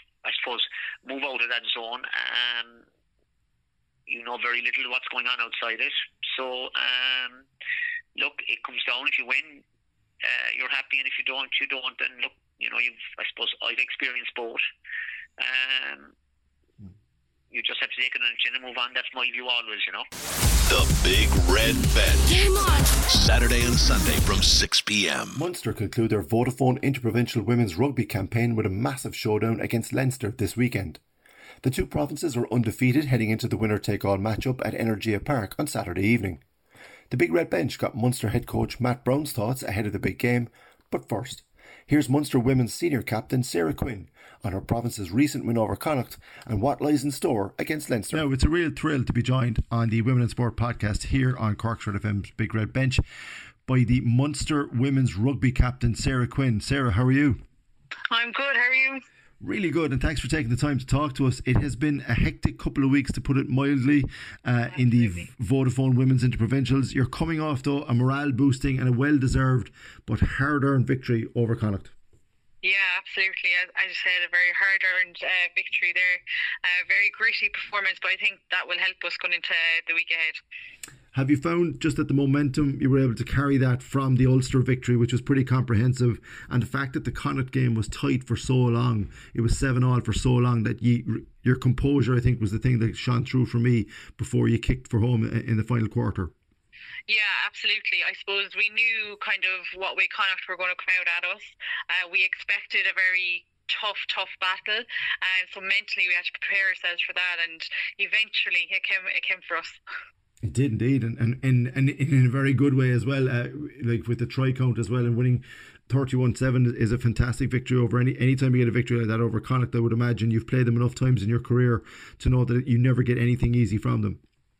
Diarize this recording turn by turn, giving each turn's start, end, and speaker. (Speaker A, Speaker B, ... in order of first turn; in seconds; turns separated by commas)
Speaker A: 0.2-2.9, Speaker A: 4.1-7.5, Speaker A: 8.2-9.6, Speaker A: 10.2-14.6, Speaker A: 15.4-16.1, Speaker A: 17.5-20.1, Speaker B: 20.7-25.4, Speaker C: 25.4-31.0, Speaker C: 31.6-36.4, Speaker C: 37.1-53.0, Speaker C: 53.7-57.4, Speaker D: 58.1-59.0, Speaker C: 59.4-71.9, Speaker D: 64.8-65.3, Speaker D: 72.6-80.4, Speaker C: 81.1-96.3, Speaker D: 97.1-109.8, Speaker C: 110.4-124.2